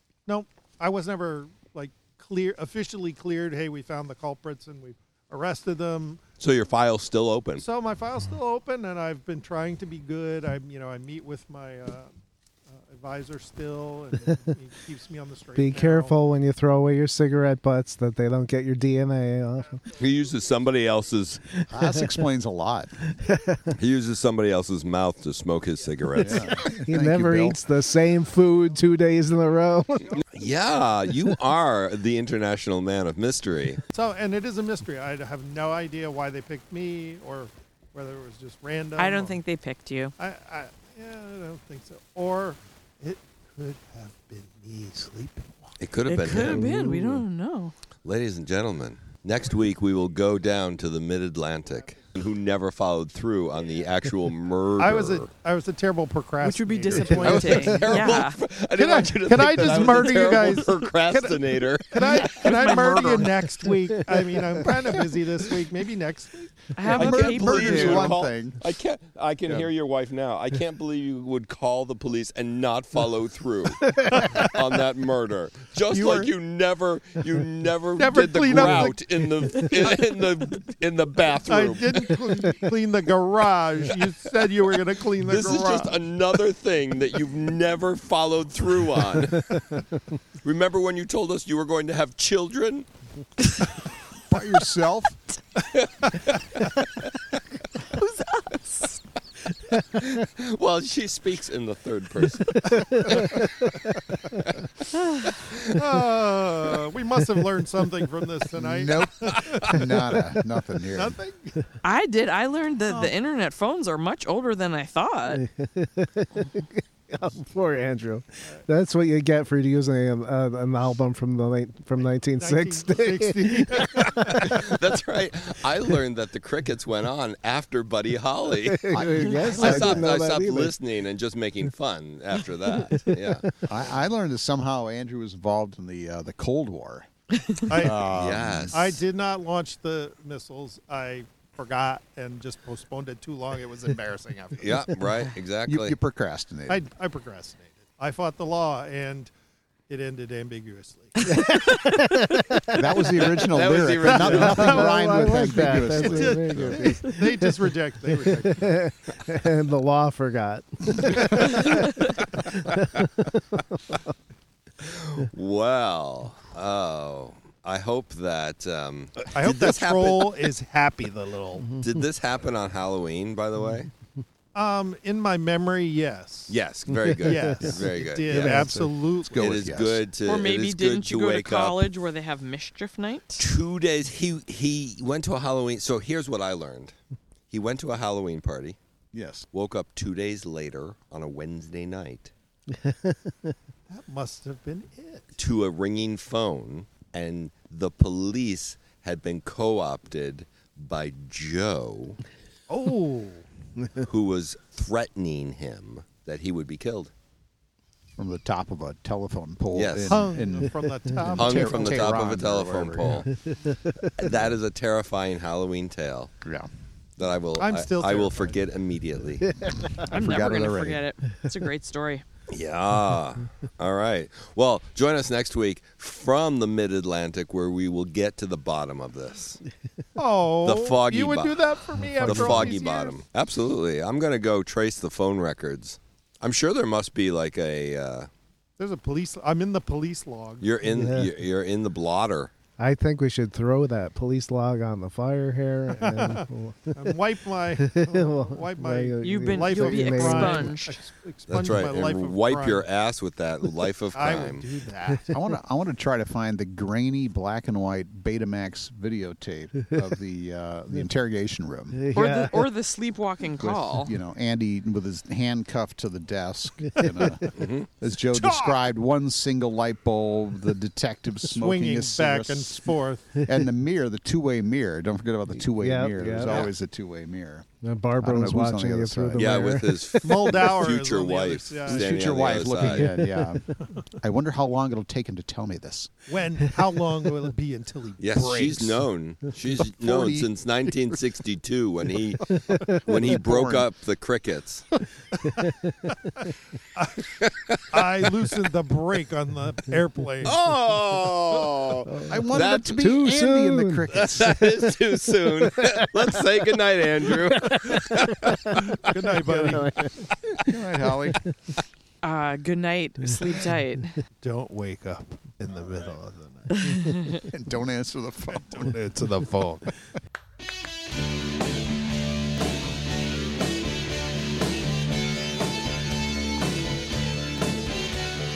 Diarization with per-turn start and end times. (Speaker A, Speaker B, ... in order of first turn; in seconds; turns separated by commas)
Speaker A: 0.2-6.2, Speaker B: 6.4-7.7, Speaker A: 7.6-12.1, Speaker A: 12.7-16.1, Speaker C: 15.6-19.8, Speaker B: 19.9-21.4, Speaker D: 21.7-22.9, Speaker C: 23.1-23.7, Speaker B: 23.7-26.6, Speaker D: 26.2-27.6, Speaker C: 26.5-30.2, Speaker B: 30.3-33.8, Speaker A: 33.9-39.4, Speaker E: 39.0-40.1, Speaker A: 40.2-45.7, Speaker B: 45.8-47.2, Speaker E: 46.0-47.7, Speaker B: 48.0-55.3, Speaker A: 54.8-58.2, Speaker E: 56.4-58.4, Speaker B: 57.1-63.3, Speaker A: 58.7-66.7, Speaker C: 64.1-64.6, Speaker E: 66.7-68.2, Speaker B: 66.8-82.1, Speaker D: 66.8-68.6, Speaker A: 73.9-74.5, Speaker D: 75.9-76.3, Speaker A: 78.0-80.0, Speaker A: 81.4-86.0, Speaker B: 85.2-89.8, Speaker B: 90.4-92.9, Speaker D: 94.3-95.2, Speaker B: 95.6-97.3, Speaker E: 97.9-99.0, Speaker B: 99.8-103.5, Speaker C: 102.5-104.5, Speaker A: 102.9-103.3, Speaker E: 104.9-105.5, Speaker B: 105.4-105.9, Speaker A: 105.7-110.2, Speaker D: 108.6-111.2, Speaker B: 109.2-109.8, Speaker A: 110.9-111.7, Speaker E: 111.8-115.4, Speaker D: 112.9-113.1, Speaker C: 115.3-124.6, Speaker A: 122.2-124.7, Speaker B: 123.9-133.5, Speaker C: 128.6-130.7, Speaker D: 128.9-130.1, Speaker C: 132.9-133.5, Speaker D: 133.7-137.1, Speaker A: 137.6-144.8, Speaker D: 137.7-138.8, Speaker B: 138.0-139.0, Speaker B: 144.6-145.9, Speaker D: 145.6-146.8, Speaker A: 146.7-149.3, Speaker A: 149.9-151.4, Speaker C: 151.3-152.8, Speaker D: 152.7-157.0, Speaker B: 153.3-154.8, Speaker A: 153.9-158.8, Speaker C: 154.3-157.5, Speaker C: 158.1-163.9, Speaker A: 161.2-161.8, Speaker B: 164.8-170.4, Speaker A: 169.3-171.7, Speaker B: 171.7-173.9, Speaker A: 174.5-176.6, Speaker B: 176.5-178.6, Speaker C: 177.1-178.9, Speaker A: 177.2-179.5, Speaker D: 179.2-180.0, Speaker B: 179.3-181.9, Speaker E: 180.2-183.4, Speaker B: 183.4-186.9, Speaker B: 187.5-188.8, Speaker D: 189.1-189.4, Speaker B: 189.5-192.3, Speaker C: 192.8-193.1, Speaker A: 193.9-195.3, Speaker B: 195.3-202.2, Speaker A: 202.7-203.4, Speaker B: 204.0-207.1, Speaker D: 208.2-213.3, Speaker B: 209.7-210.3, Speaker A: 210.1-212.2, Speaker B: 211.3-213.3, Speaker B: 214.1-216.3, Speaker D: 216.4-216.7, Speaker B: 217.2-219.5, Speaker A: 217.6-218.6, Speaker D: 219.9-221.0, Speaker E: 220.0-222.2, Speaker B: 222.5-229.6, Speaker A: 230.2-233.2, Speaker B: 230.6-231.6, Speaker B: 232.2-238.3, Speaker A: 238.8-241.0, Speaker B: 240.6-242.5, Speaker C: 240.9-241.3, Speaker C: 242.8-247.1, Speaker A: 245.9-252.9, Speaker C: 247.8-250.8, Speaker E: 249.2-251.0, Speaker B: 251.5-254.6, Speaker A: 254.1-255.3, Speaker D: 255.3-262.1, Speaker C: 261.9-262.6, Speaker E: 262.1-264.1, Speaker D: 263.6-277.7, Speaker A: 267.1-267.5, Speaker B: 267.5-267.9, Speaker A: 268.3-268.9, Speaker A: 271.5-273.4, Speaker C: 275.8-276.7, Speaker C: 277.8-280.6, Speaker D: 278.2-279.7, Speaker B: 279.3-283.1, Speaker A: 280.2-282.2, Speaker D: 281.9-286.1, Speaker C: 282.8-283.5, Speaker A: 286.3-289.1, Speaker B: 288.2-294.9, Speaker D: 289.9-290.5, Speaker D: 293.1-293.9, Speaker A: 295.3-295.7, Speaker C: 295.6-296.3, Speaker A: 296.9-297.3, Speaker B: 297.4-298.1, Speaker A: 297.9-300.6, Speaker B: 300.4-303.2, Speaker C: 302.1-304.1, Speaker D: 302.2-304.8, Speaker B: 304.1-309.2, Speaker C: 305.6-306.1, Speaker C: 307.5-308.8, Speaker A: 308.9-310.0, Speaker C: 309.4-310.7, Speaker D: 310.6-311.4, Speaker E: 312.2-314.1, Speaker A: 314.4-316.9, Speaker E: 316.7-317.4, Speaker D: 317.5-319.3, Speaker A: 318.5-319.8